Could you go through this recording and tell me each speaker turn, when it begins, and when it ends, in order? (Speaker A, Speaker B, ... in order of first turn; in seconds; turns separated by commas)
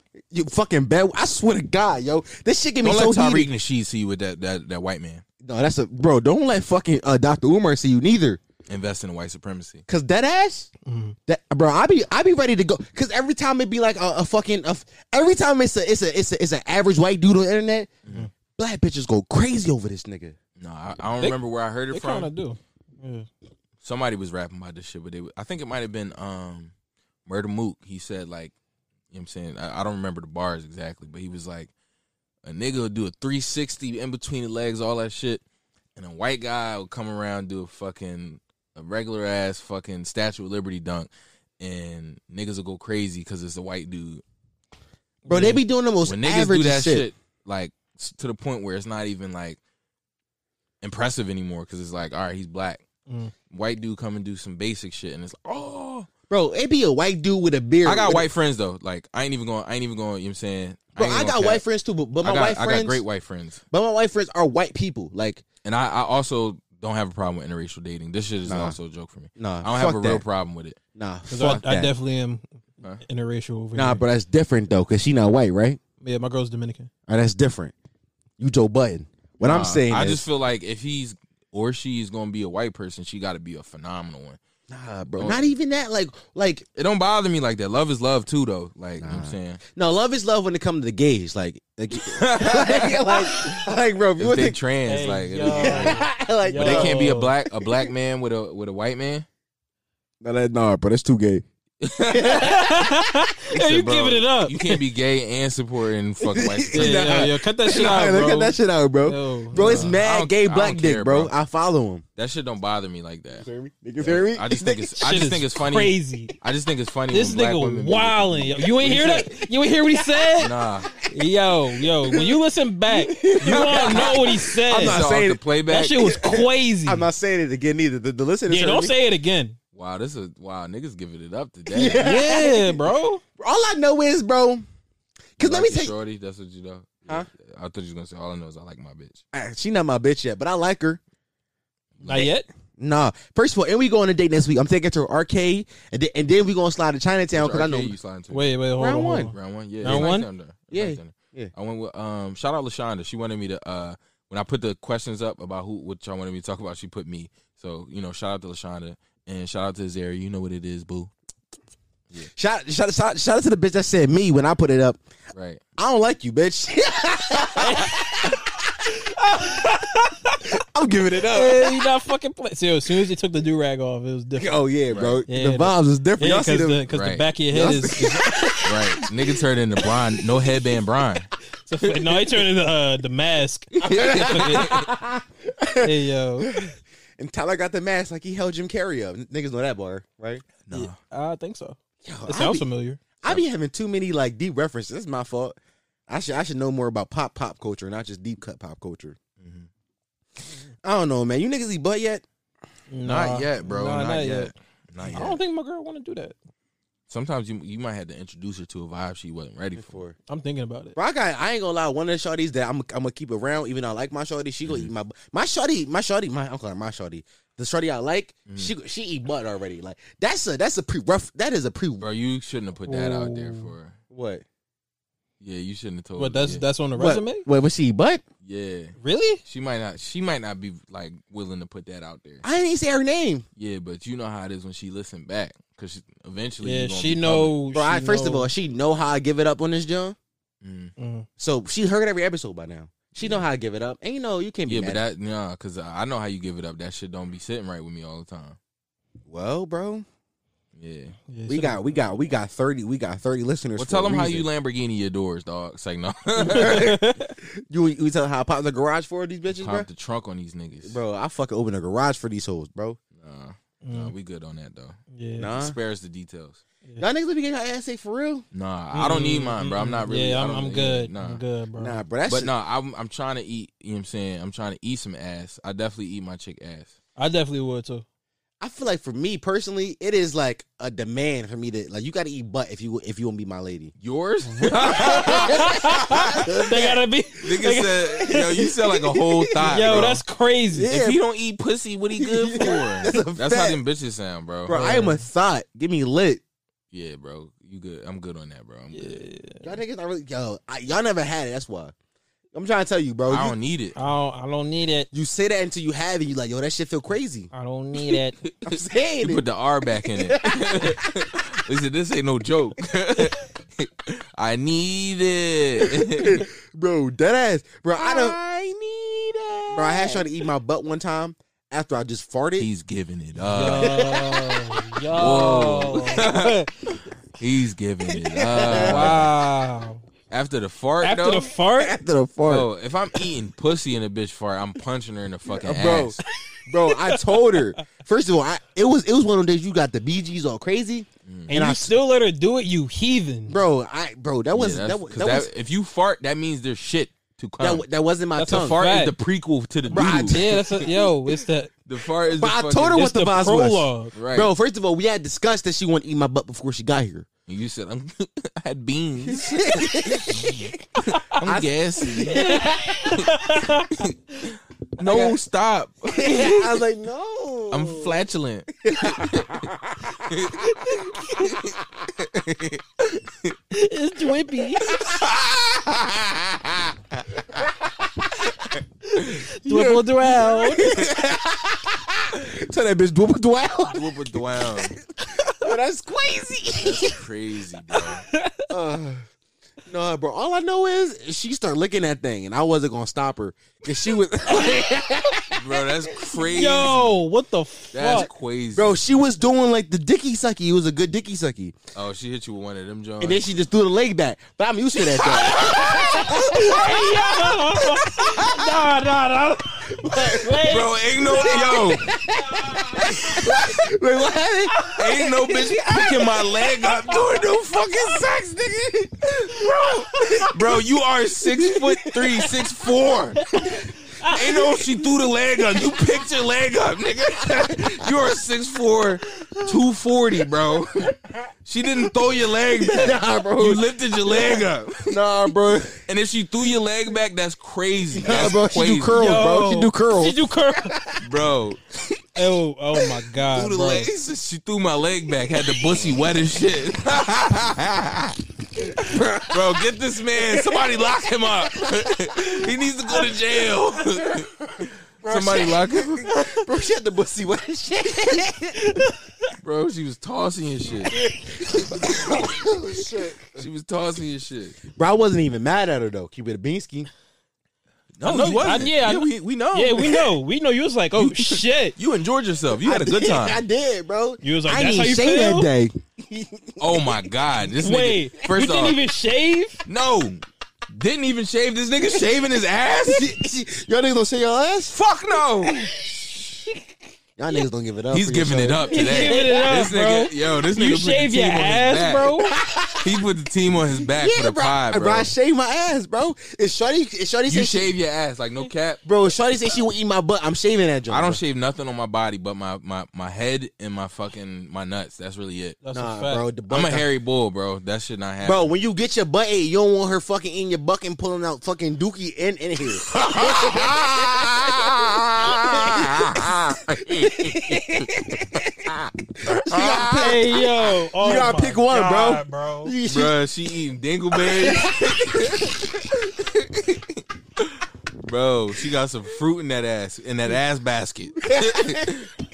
Speaker A: 0.3-3.5, Speaker B: 2.8-5.2, Speaker A: 5.4-8.4, Speaker B: 8.7-9.8, Speaker A: 9.9-10.7, Speaker C: 10.9-11.2, Speaker A: 11.3-17.9, Speaker B: 18.1-18.3, Speaker A: 18.6-20.4, Speaker B: 20.6-22.3, Speaker C: 21.9-23.3, Speaker B: 23.8-26.7, Speaker B: 27.3-28.5, Speaker B: 29.1-31.7, Speaker B: 32.4-35.4, Speaker B: 36.0-44.2, Speaker C: 45.3-45.6, Speaker A: 45.3-47.1, Speaker B: 46.0-49.6, Speaker B: 50.8-52.8, Speaker C: 53.1-53.3, Speaker B: 53.5-56.1, Speaker A: 56.3-58.3, Speaker B: 57.9-61.6, Speaker A: 61.0-63.0, Speaker B: 62.2-63.6, Speaker A: 63.7-65.4, Speaker B: 65.6-70.8, Speaker A: 68.5-68.8, Speaker A: 69.4-70.2, Speaker A: 71.0-71.9, Speaker C: 71.3-72.4, Speaker C: 73.0-74.0, Speaker A: 73.8-75.8, Speaker C: 76.0-76.9, Speaker A: 77.1-77.7, Speaker A: 78.4-80.2, Speaker B: 79.4-84.4, Speaker A: 84.7-86.7, Speaker B: 85.2-85.5, Speaker B: 86.8-89.6, Speaker A: 89.0-94.6, Speaker B: 92.0-93.6, Speaker B: 94.2-96.0, Speaker C: 94.9-97.3, Speaker A: 95.5-97.0, Speaker B: 96.5-99.3, Speaker A: 100.2-101.4, Speaker B: 101.8-102.5, Speaker A: 102.1-102.7, Speaker C: 102.3-104.8, Speaker B: 103.5-107.2, Speaker A: 106.2-112.0, Speaker C: 106.7-109.9, Speaker B: 109.5-111.3, Speaker B: 112.2-113.5, Speaker A: 113.4-114.9, Speaker B: 114.0-119.3, Speaker C: 115.0-116.3, Speaker C: 117.1-125.0, Speaker B: 120.4-120.9, Speaker A: 122.9-125.4, Speaker B: 123.4-126.1, Speaker C: 125.7-127.1, Speaker A: 126.0-129.0, Speaker C: 128.5-129.6, Speaker B: 129.7-132.1, Speaker A: 131.7-132.9, Speaker C: 132.0-133.2, Speaker A: 133.4-134.7, Speaker A: 135.4-135.9, Speaker B: 135.4-139.2, Speaker A: 139.3-141.0, Speaker B: 142.0-142.3, Speaker C: 142.1-142.5, Speaker A: 142.8-147.9, Speaker B: 147.3-148.5, Speaker C: 148.3-150.3, Speaker A: 148.8-149.3, Speaker B: 149.3-161.1, Speaker A: 150.7-151.5, Speaker A: 162.3-165.0, Speaker B: 165.3-165.6, Speaker A: 165.8-168.4, Speaker C: 167.6-168.0, Speaker A: 170.4-171.8, Speaker C: 171.3-174.6, Speaker A: 174.4-176.8, Speaker B: 174.9-175.2, Speaker C: 175.3-178.7, Speaker B: 176.9-177.2, Speaker A: 177.5-178.7, Speaker B: 178.7-181.3, Speaker C: 181.7-184.8, Speaker B: 181.8-182.1, Speaker B: 183.8-184.9, Speaker A: 183.8-185.9, Speaker C: 185.8-186.7, Speaker A: 186.4-190.4, Speaker B: 190.7-191.0, Speaker C: 190.7-193.0, Speaker A: 192.0-192.7, Speaker A: 193.2-195.6, Speaker A: 196.1-199.2, Speaker B: 199.4-199.7, Speaker A: 200.8-202.2, Speaker C: 202.9-204.5, Speaker B: 203.0-205.4, Speaker C: 205.1-206.4, Speaker B: 207.1-210.0, Speaker A: 209.8-210.2, Speaker C: 210.3-211.0, Speaker A: 211.0-222.1, Speaker B: 214.7-214.9, Speaker B: 218.5-218.7, Speaker B: 222.0-224.0, Speaker C: 222.9-223.7, Speaker A: 224.1-224.4, Speaker B: 225.4-226.7, Speaker C: 226.2-227.5, Speaker A: 226.9-228.2, Speaker B: 228.4-232.4, Speaker C: 229.0-229.4, Speaker A: 232.4-233.4, Speaker B: 233.6-237.6, Speaker C: 236.6-238.5, Speaker A: 237.7-240.2, Speaker B: 240.6-240.9, Speaker C: 241.0-241.3, Speaker A: 241.4-245.0, Speaker B: 244.7-248.6, Speaker A: 249.3-250.1, Speaker B: 250.8-251.2, Speaker C: 251.3-251.9, Speaker A: 251.5-254.5, Speaker B: 253.8-256.9, Speaker A: 256.4-259.9, Speaker C: 256.5-257.3, Speaker B: 259.5-261.0, Speaker A: 260.8-263.0, Speaker B: 263.1-265.0, Speaker C: 263.8-264.1, Speaker C: 265.1-265.5, Speaker A: 265.4-265.8, Speaker B: 265.5-266.6, Speaker A: 267.0-268.5, Speaker B: 268.5-271.4, Speaker C: 268.9-272.0, Speaker A: 271.8-272.5, Speaker B: 272.3-276.9, Speaker C: 277.2-278.1, Speaker A: 278.6-283.9, Speaker B: 284.0-286.5, Speaker C: 284.8-288.7, Speaker A: 284.9-285.7, Speaker A: 286.4-287.0, Speaker B: 287.4-290.2, Speaker A: 289.2-290.1, Speaker C: 289.6-290.9, Speaker A: 290.7-291.2, Speaker B: 290.9-294.8, Speaker A: 292.2-293.8, Speaker A: 294.7-296.4, Speaker C: 294.7-295.2, Speaker B: 296.9-299.2, Speaker C: 298.9-299.6, Speaker A: 299.6-301.9, Speaker A: 302.5-303.6, Speaker B: 303.3-304.0, Speaker C: 304.0-305.1, Speaker A: 305.1-307.5, Speaker C: 307.5-308.4, Speaker B: 308.0-316.4, Speaker A: 308.7-309.4, Speaker A: 310.2-311.1, Speaker A: 316.2-319.1, Speaker B: 318.0-318.6, Speaker B: 319.5-320.1, Speaker A: 319.7-322.7, Speaker B: 322.6-324.0, Speaker C: 323.5-326.5, Speaker A: 323.6-324.5, Speaker B: 325.1-326.7, Speaker B: 327.4-329.3, Speaker A: 328.4-329.2, Speaker C: 328.7-330.0, Speaker B: 330.3-331.5, Speaker C: 331.0-332.0, Speaker A: 331.8-332.7, Speaker B: 332.5-336.2, Speaker A: 335.6-341.9, Speaker B: 341.3-341.5, Speaker C: 341.5-343.6, Speaker A: 343.5-345.5, Speaker B: 344.5-347.9, Speaker A: 347.6-348.8, Speaker C: 348.4-349.2, Speaker B: 348.4-350.5, Speaker A: 349.9-350.6, Speaker C: 349.9-351.7, Speaker B: 351.9-353.1, Speaker A: 352.4-357.3, Speaker C: 352.9-354.1, Speaker B: 354.1-354.5, Speaker B: 357.5-363.3, Speaker A: 359.3-360.7, Speaker A: 361.4-363.0, Speaker C: 362.3-364.0, Speaker B: 365.0-366.8, Speaker A: 365.1-365.4, Speaker A: 366.1-368.2, Speaker B: 367.7-369.6, Speaker A: 368.8-370.2, Speaker B: 370.3-370.7, Speaker B: 371.4-373.6, Speaker C: 373.7-375.0, Speaker B: 374.9-377.6, Speaker C: 379.1-381.0, Speaker B: 379.2-379.5, Speaker A: 379.7-387.2, Speaker B: 383.9-385.0, Speaker B: 386.8-388.2, Speaker C: 388.0-388.7, Speaker A: 388.7-389.2, Speaker A: 389.9-395.6, Speaker B: 395.5-397.2, Speaker C: 396.4-398.3, Speaker B: 397.9-399.0, Speaker A: 398.8-401.8, Speaker B: 401.9-403.4, Speaker A: 403.2-407.5, Speaker B: 405.2-406.3, Speaker C: 405.5-411.9, Speaker A: 408.2-408.5, Speaker A: 410.0-410.6, Speaker B: 410.6-412.2, Speaker A: 411.4-415.0, Speaker C: 412.5-413.4, Speaker B: 413.1-413.7, Speaker C: 414.8-415.9, Speaker B: 414.9-419.7, Speaker C: 419.6-420.5, Speaker B: 420.4-423.7, Speaker C: 423.5-424.3, Speaker B: 424.2-431.1, Speaker B: 431.6-435.2, Speaker A: 432.8-433.8, Speaker A: 435.1-436.0, Speaker B: 436.1-439.3, Speaker A: 438.1-440.5, Speaker C: 439.1-441.0, Speaker B: 441.2-441.8, Speaker C: 442.4-444.1, Speaker B: 443.5-448.4, Speaker A: 448.8-449.8, Speaker B: 449.5-456.3, Speaker A: 455.2-455.8, Speaker A: 456.3-458.8, Speaker C: 458.9-459.1, Speaker B: 459.6-461.2, Speaker A: 461.1-463.5, Speaker B: 462.0-462.3, Speaker B: 463.6-464.8, Speaker A: 464.9-467.1, Speaker B: 468.2-470.3, Speaker C: 468.2-471.9, Speaker A: 468.5-468.9, Speaker B: 471.1-473.6, Speaker A: 472.8-477.1, Speaker C: 474.4-475.7, Speaker B: 476.8-479.0, Speaker C: 477.8-479.8, Speaker B: 479.9-483.3, Speaker A: 483.1-485.0, Speaker B: 484.9-485.9, Speaker A: 487.4-489.8, Speaker B: 488.1-492.4, Speaker C: 488.9-492.5, Speaker A: 492.5-493.1, Speaker B: 493.0-495.3, Speaker A: 494.1-497.9, Speaker B: 497.5-499.0, Speaker A: 499.1-501.4, Speaker B: 501.1-505.8, Speaker C: 505.8-506.4, Speaker A: 505.9-507.1, Speaker B: 506.7-508.7, Speaker A: 508.4-514.8, Speaker B: 513.1-518.2, Speaker A: 515.5-516.6, Speaker A: 517.2-519.1, Speaker B: 519.6-520.3, Speaker A: 519.6-520.6, Speaker C: 519.9-523.0, Speaker A: 521.2-523.4, Speaker B: 523.1-532.3, Speaker A: 524.4-524.9, Speaker A: 531.5-532.1